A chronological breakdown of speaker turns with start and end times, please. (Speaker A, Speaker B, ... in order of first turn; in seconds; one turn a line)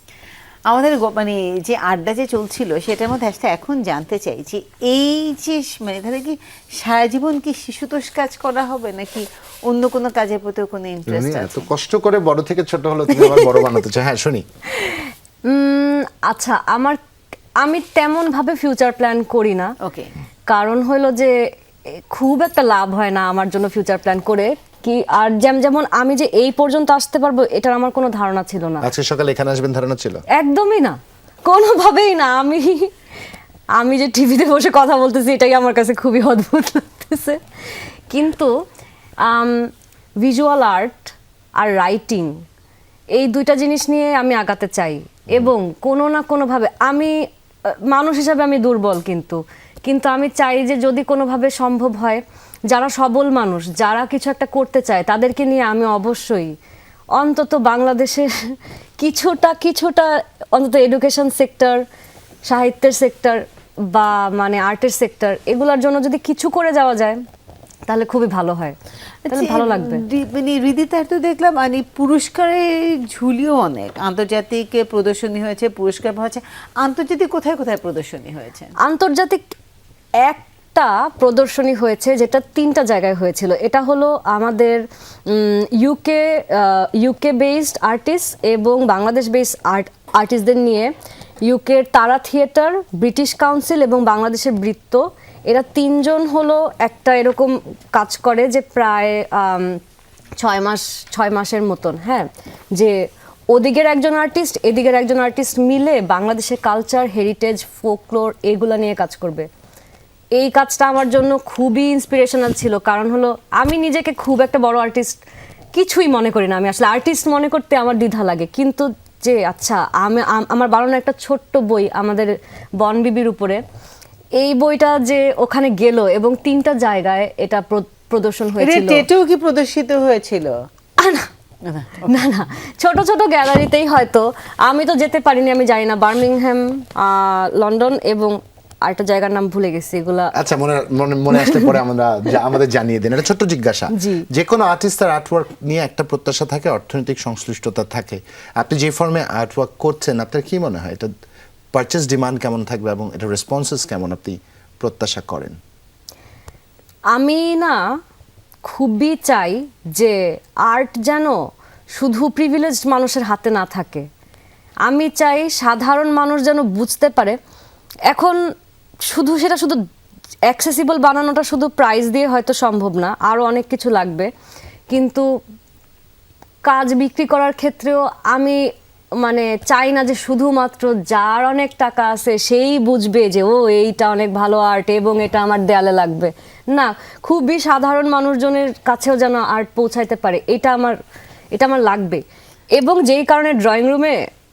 Speaker A: 0.7-11.7
Speaker B: 11.1-14.4
Speaker C: 13.2-13.6
Speaker C: 14.8-17.0
Speaker C: 17.6-19.7
Speaker A: 19.8-20.1
Speaker C: 20.5-21.3
Speaker C: 21.9-28.8
Speaker B: 28.8-30.2
Speaker C: 30.3-32.9
Speaker C: 33.8-37.4
Speaker C: 38.1-38.5
Speaker C: 39.2-39.6
Speaker C: 40.2-42.3
Speaker C: 43.1-47.1
Speaker C: 47.9-56.5
Speaker C: 57.1-61.8
Speaker C: 62.4-67.2
Speaker C: 67.9-68.8
Speaker A: 69.2-78.7
Speaker C: 69.3-70.0
Speaker C: 78.8-79.4
Speaker C: 80.2-90.9
Speaker C: 91.4-99.8
Speaker C: 100.4-102.9
Speaker C: 103.5-109.5
Speaker C: 110.3-115.2
Speaker C: 115.7-123.6
Speaker C: 124.4-129.1
Speaker A: 128.6-130.5
Speaker C: 131.0-131.3
Speaker A: 131.6-132.2
Speaker C: 132.0-140.3
Speaker B: 140.3-151.1
Speaker C: 141.3-141.8
Speaker C: 143.9-144.2
Speaker B: 151.7-155.5
Speaker C: 157.1-157.8
Speaker C: 158.6-161.3
Speaker C: 161.9-164.0
Speaker C: 164.8-167.4
Speaker C: 168.1-168.4
Speaker C: 169.1-169.8
Speaker C: 170.5-174.3
Speaker C: 174.9-175.2
Speaker C: 176.7-178.6
Speaker C: 179.2-191.0
Speaker C: 191.5-192.2
Speaker C: 192.8-194.2